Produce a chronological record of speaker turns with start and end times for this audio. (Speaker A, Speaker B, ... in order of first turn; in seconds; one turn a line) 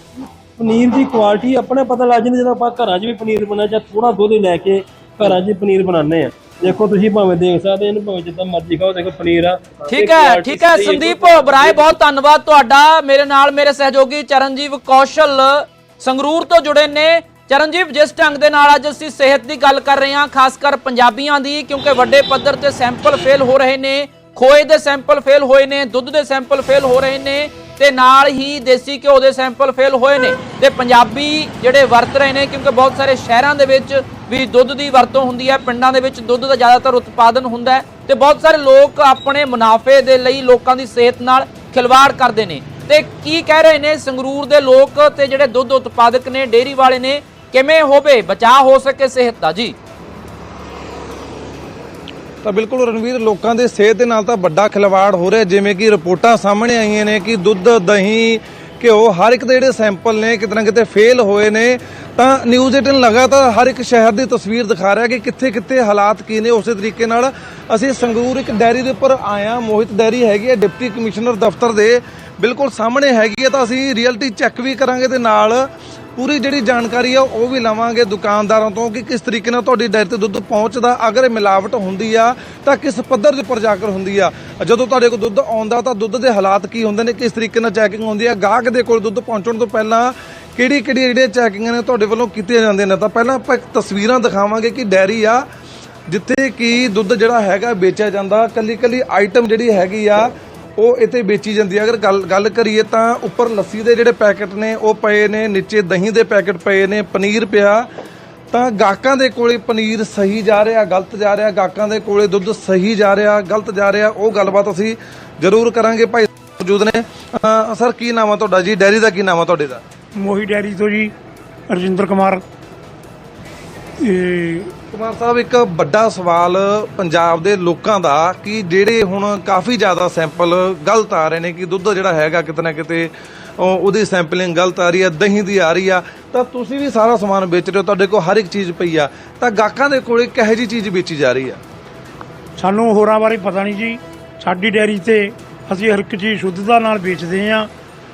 Speaker A: 0.6-11.9
Speaker B: 9.9-49.8
Speaker C: 52.4-95.4
Speaker C: 96.1-107.8
Speaker C: 108.5-119.8
Speaker D: 120.2-121.1
Speaker D: 121.7-122.4
Speaker D: 124.0-124.7
Speaker C: 124.9-141.6
Speaker D: 142.6-147.7